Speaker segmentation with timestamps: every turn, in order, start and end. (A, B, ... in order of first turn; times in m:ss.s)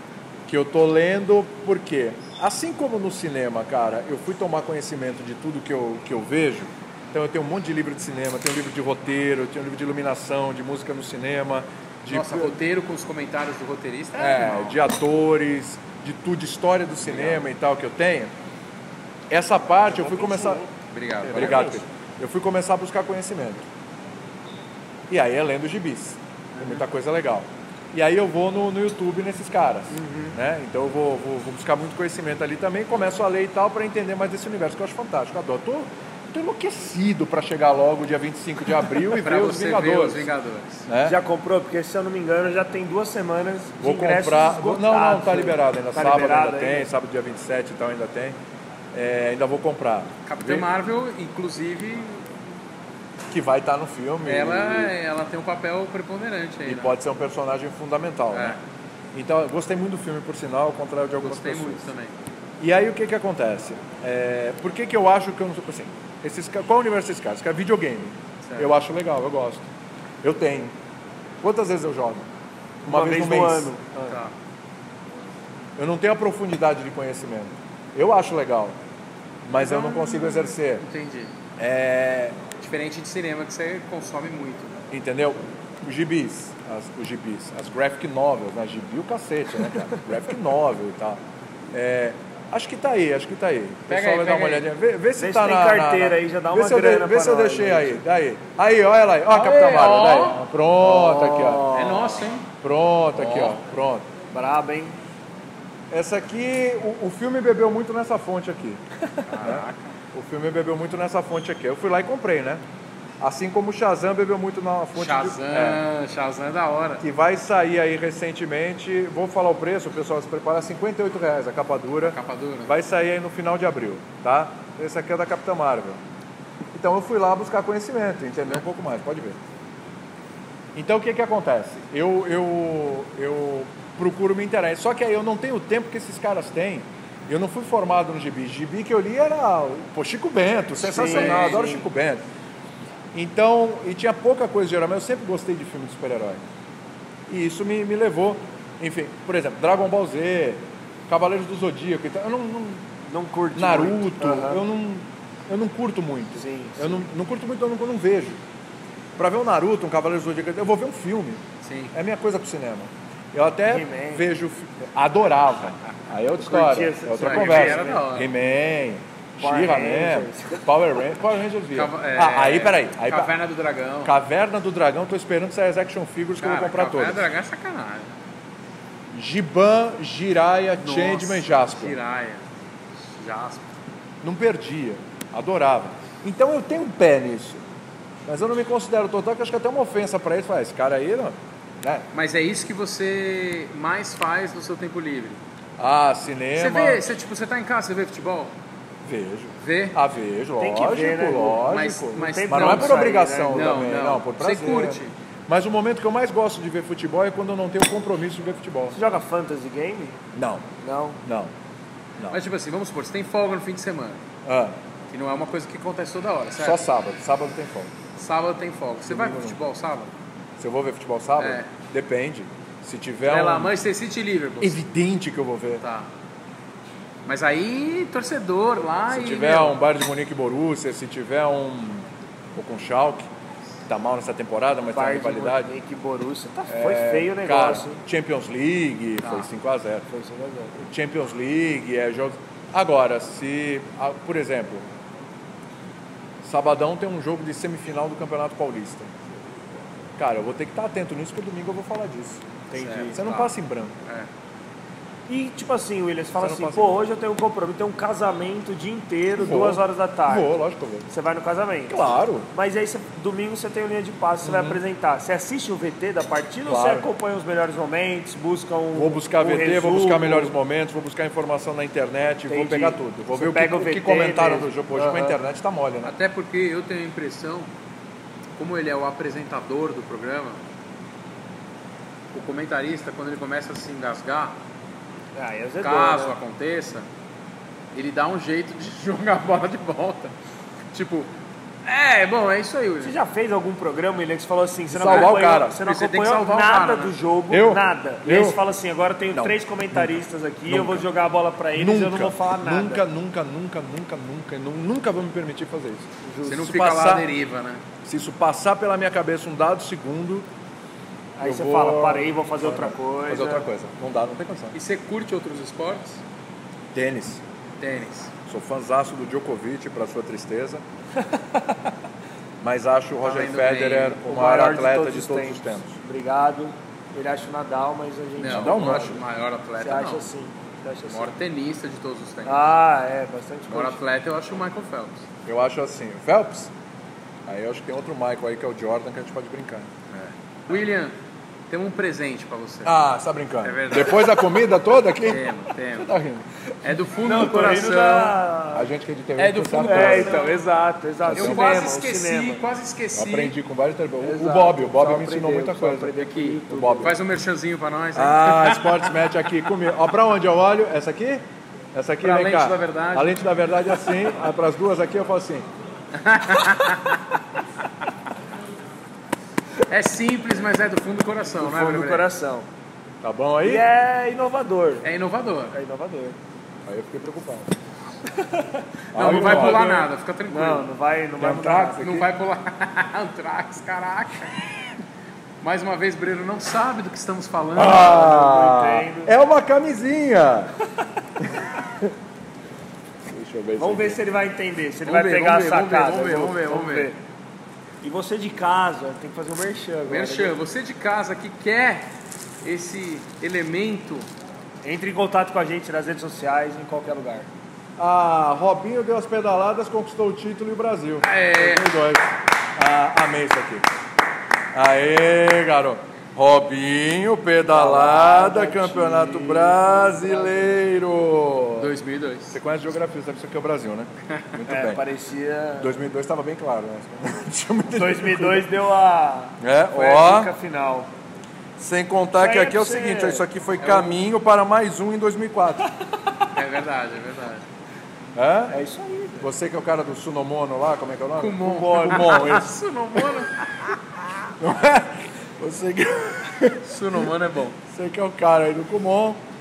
0:00.5-0:12.6 A
0:12.1-0:14.8 B
0:14.2-0:18.3 A
0:17.0-0:17.4 B
0:19.3-0:20.6 A
0:19.9-0:20.7 C
0:20.9-0:21.8 B
0:21.2-0:23.7 A
0:21.4-0:21.8 C
0:25.1-0:40.3 A
0:29.9-0:30.4 C
0:39.1-0:40.9 B
0:40.9-0:41.2 A
0:41.0-0:46.9 C
0:43.8-0:48.4 A
0:48.9-0:50.7 A
0:50.3-0:52.2 B
0:53.3-0:54.9 A
0:54.2-0:57.0 B
0:56.6-0:58.6 A
0:58.3-0:58.6 B
0:59.1-1:01.9 A
1:01.2-1:02.1 B
1:02.6-1:09.7 A
1:08.4-1:08.7 B
1:10.2-1:10.7 A
1:11.4-1:12.3 A
1:12.8-1:14.2 C
1:12.9-1:13.7 A
1:15.8-1:18.8 A
1:19.4-1:20.8 A
1:19.6-1:21.3 B
1:21.6-1:22.4 A
1:22.6-1:24.7 B
1:24.9-1:31.2 A
1:31.7-1:41.7 A
1:33.9-1:34.7 B
1:35.2-1:38.0 C
1:39.3-1:40.4 B
1:40.8-1:42.2 C
1:41.7-1:42.5 B
1:42.6-1:44.1 A
1:43.2-1:43.5 B
1:44.3-1:45.0 C
1:45.9-1:48.8 A
1:49.3-1:49.9 B
1:49.4-1:52.6 A
1:53.2-1:55.8 A
1:55.0-1:57.0 B
1:57.0-2:06.0 A
2:02.1-2:02.7 B
2:06.7-2:09.4 A
2:10.7-2:22.2 A
2:20.8-2:21.9 C
2:21.0-2:21.6 B
2:23.1-2:26.4 A
2:27.3-2:32.9 A
2:33.1-2:34.6 C
2:33.6-2:38.4 A
2:36.4-2:37.1 C
2:39.2-2:53.3 A
2:41.6-2:41.9 B
2:43.7-2:44.2 C
2:46.4-2:48.1 C
2:47.2-2:48.3 B
2:49.4-2:50.6 C
2:51.7-2:54.2 B
2:54.0-2:57.3 A
2:56.4-2:58.1 B
2:59.1-3:02.0 A
3:00.8-3:02.4 B
3:03.0-3:03.7 B
3:04.2-3:07.6 A
3:08.3-3:12.1 A
3:12.1-3:15.4 B
3:15.8-3:17.1 A
3:16.6-3:18.5 B
3:19.0-3:22.0 A
3:19.6-3:20.0 B
3:20.6-3:23.8 C
3:21.6-3:25.1 B
3:22.5-3:29.0 A
3:28.9-3:30.2 C
3:30.3-3:30.7 A
3:30.8-3:31.2 C
3:31.2-3:31.5 A
3:32.3-3:34.2 B
3:34.4-3:34.8 A
3:35.1-3:36.8 B
3:36.6-3:37.9 A
3:38.2-3:40.1 B
3:39.1-3:39.6 A
3:40.6-3:43.7 A
3:41.4-3:41.7 B
3:43.3-3:44.8 B
3:44.6-3:45.8 A
3:45.8-3:46.1 B
3:47.3-3:49.8 B
3:49.1-3:53.3 A
3:53.9-3:55.7 A
3:54.9-3:58.0 C
3:56.7-4:00.1 A
3:59.2-3:59.5 B
4:00.1-4:00.8 C
4:00.8-4:04.8 A
4:06.4-4:09.1 A
4:10.2-4:12.4 A
4:12.7-4:13.2 C
4:12.7-4:13.5 B
4:13.1-4:14.0 A
4:15.3-4:20.5 C
4:16.4-4:17.0 A
4:19.4-4:21.1 A
4:21.1-4:30.6 C
4:21.9-4:22.5 A
4:24.4-4:24.8 A
4:26.7-4:27.1 A
4:29.0-4:36.1 A
4:32.5-4:35.4 C
4:36.0-4:37.7 B
4:38.6-4:40.6 B
4:42.3-4:44.6 B
4:45.4-4:46.4 C
4:45.8-4:47.1 B
4:47.9-4:50.3 B
4:50.9-4:51.3 B
4:51.8-4:53.2 B
4:53.0-5:03.0 C
4:54.9-4:55.8 A
4:55.1-4:57.1 B
4:57.5-4:58.6 A
4:59.3-5:00.1 A
5:00.7-5:01.1 A
5:01.8-5:07.3 A
5:06.2-5:06.6 C
5:06.4-5:07.8 B
5:08.0-5:10.4 A
5:11.4-5:13.7 C
5:11.4-5:14.8 A
5:14.7-5:16.2 B
5:16.9-5:17.4 A
5:17.8-5:18.3 B
5:18.4-5:20.8 A
5:22.6-5:26.0 A
5:23.2-5:24.2 B
5:24.2-5:29.2 C
5:28.4-5:30.2 B
5:28.4-5:29.2 A
5:29.8-5:31.3 C
5:31.1-5:32.7 B
5:32.4-5:34.0 C
5:33.7-5:35.2 B
5:35.4-5:36.7 A
5:37.4-5:39.9 A
5:40.1-5:41.1 B
5:41.7-5:43.0 B
5:42.8-5:46.5 A
5:43.6-5:44.4 B
5:45.2-5:46.1 B
5:46.8-5:48.4 B
5:47.2-5:48.9 C
5:48.7-5:50.4 A
5:49.4-5:50.6 B
5:49.8-5:52.6 C
5:51.2-5:51.6 A
5:51.3-5:53.5 B
5:53.1-5:56.2 A
5:54.2-5:57.1 C
5:56.2-5:59.1 B
5:56.7-5:57.2 A
5:58.2-6:01.4 A
6:01.9-6:05.6 A
6:02.2-6:03.4 B
6:06.1-6:07.2 B
6:09.9-6:12.3 B
6:11.6-6:12.7 C
6:13.2-6:13.8 A
6:13.6-6:15.1 C
6:15.0-6:15.7 B
6:15.7-6:16.4 C
6:16.9-6:17.7 A
6:18.4-6:22.1 C
6:19.1-6:19.9 A
6:19.2-6:20.9 B
6:21.4-6:22.3 A
6:22.0-6:24.7 B
6:25.6-6:28.2 B
6:27.7-6:30.7 A
6:27.9-6:29.4 C
6:31.4-6:32.1 A
6:33.3-6:34.2 A
6:33.8-6:37.2 C
6:35.0-6:37.1 B
6:38.0-6:40.6 C
6:40.1-6:42.1 B
6:42.6-6:44.3 B
6:44.8-6:47.5 C
6:48.0-6:53.9 A
6:51.2-6:51.9 B
6:54.7-7:01.9 A
6:57.7-7:00.7 C
7:01.8-7:02.6 B
7:02.5-7:05.0 A
7:04.7-7:06.0 C
7:05.8-7:08.7 A
7:08.0-7:11.1 C
7:09.6-7:10.5 A
7:11.8-7:15.9 A
7:12.3-7:13.4 C
7:13.8-7:14.2 B
7:16.5-7:17.6 B
7:18.4-7:18.7 A
7:18.7-7:19.5 C
7:19.4-7:22.8 A
7:21.4-7:23.9 B
7:21.6-7:22.4 C
7:24.6-7:27.3 A
7:26.8-7:27.8 B
7:27.9-7:29.4 A